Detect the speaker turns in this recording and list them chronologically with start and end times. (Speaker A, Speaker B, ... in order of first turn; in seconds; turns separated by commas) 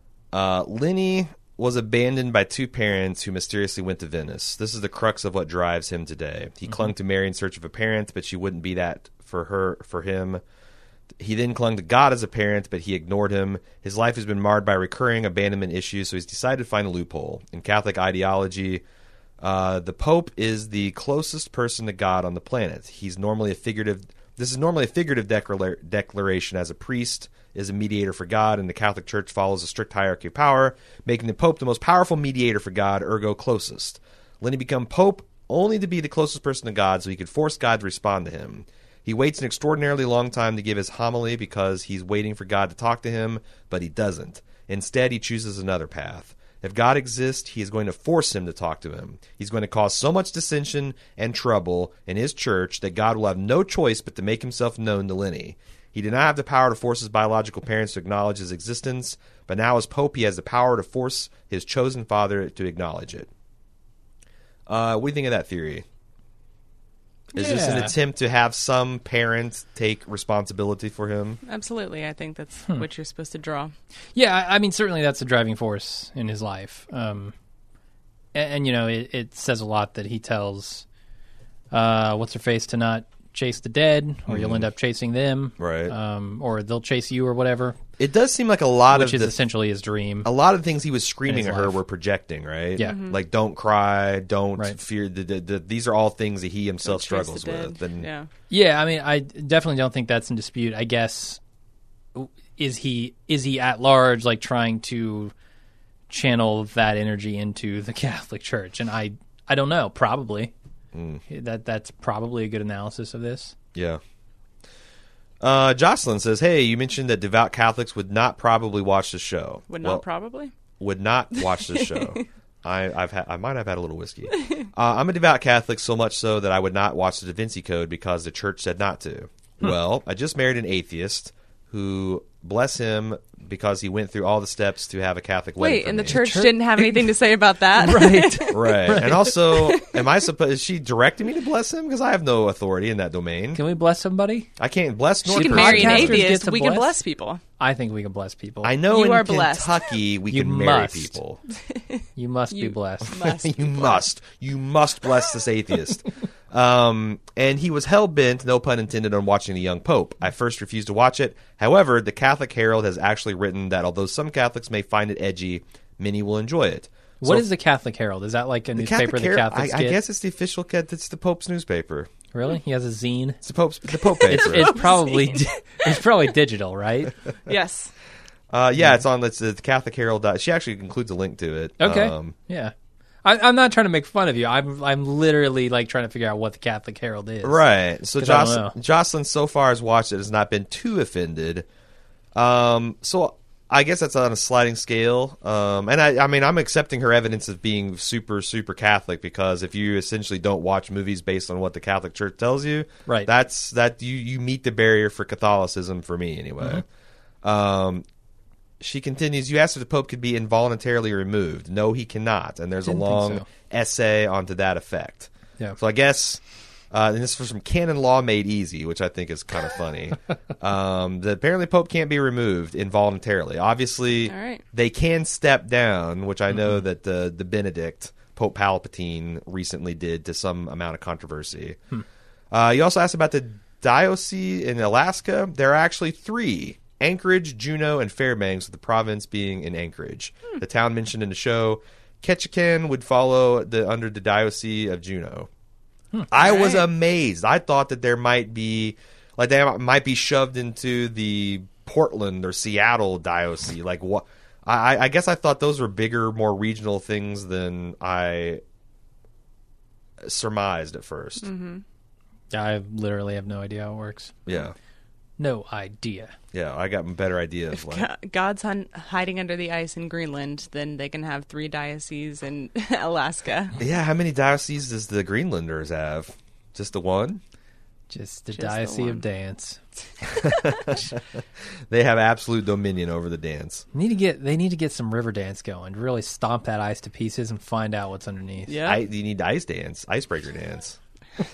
Speaker A: 0.3-10.4, Speaker A: 11.2-18.8, Speaker A: 19.4-63.3, Speaker A: 64.7-65.8, Speaker A: 67.3-71.4, Speaker B: 67.4-67.9, Speaker C: 71.4-73.7, Speaker B: 74.1-77.3, Speaker B: 78.3-80.9, Speaker B: 81.7-87.8, Speaker A: 84.3-84.7, Speaker A: 85.6-86.0, Speaker A: 88.0-89.4, Speaker B: 88.9-90.3, Speaker A: 90.2-98.1, Speaker B: 91.3-91.8, Speaker C: 92.8-93.2, Speaker C: 96.8-98.3, Speaker B: 98.5-101.4, Speaker B: 102.1-105.3, Speaker B: 106.1-110.5, Speaker A: 110.9-111.2, Speaker B: 111.3-113.6, Speaker A: 113.8-114.0, Speaker A: 115.4-120.0, Speaker C: 119.7-120.5, Speaker A: 120.8-136.2, Speaker C: 121.4-122.2, Speaker C: 135.6-140.2, Speaker B: 136.1-137.2, Speaker B: 137.8-139.3, Speaker A: 138.5-143.6, Speaker B: 143.6-144.5, Speaker A: 144.6-146.2, Speaker B: 145.2-146.9, Speaker C: 145.3-147.4, Speaker B: 147.6-148.8, Speaker A: 148.6-151.4, Speaker C: 148.9-149.9, Speaker B: 150.3-151.2, Speaker C: 151.7-154.0, Speaker B: 152.2-153.2, Speaker A: 153.1-167.5, Speaker B: 167.2-170.0, Speaker A: 168.8-172.1, Speaker B: 172.3-173.4, Speaker A: 173.4-174.8, Speaker C: 173.9-176.0, Speaker B: 174.3-177.2, Speaker C: 177.5-177.9, Speaker A: 178.5-182.4, Speaker B: 181.8-187.6, Speaker A: 187.4-191.7, Speaker B: 188.2-188.8, Speaker A: 192.3-206.8, Speaker A: 207.4-208.1, Speaker A: 208.8-216.4, Speaker B: 212.8-213.5, Speaker A: 216.9-231.8, Speaker C: 224.3-224.6, Speaker B: 226.5-226.8, Speaker A: 232.5-245.5, Speaker A: 246.3-258.6, Speaker C: 246.4-246.9, Speaker A: 260.2-261.5, Speaker C: 261.4-261.8, Speaker B: 262.5-264.4, Speaker A: 264.5-264.8, Speaker B: 265.4-266.4, Speaker A: 266.5-268.1, Speaker C: 267.7-273.8, Speaker A: 273.8-277.4, Speaker B: 278.1-279.8, Speaker C: 278.5-279.2, Speaker A: 280.4-281.2, Speaker A: 281.9-283.9, Speaker B: 283.9-288.8, Speaker C: 288.7-289.0, Speaker A: 288.8-291.0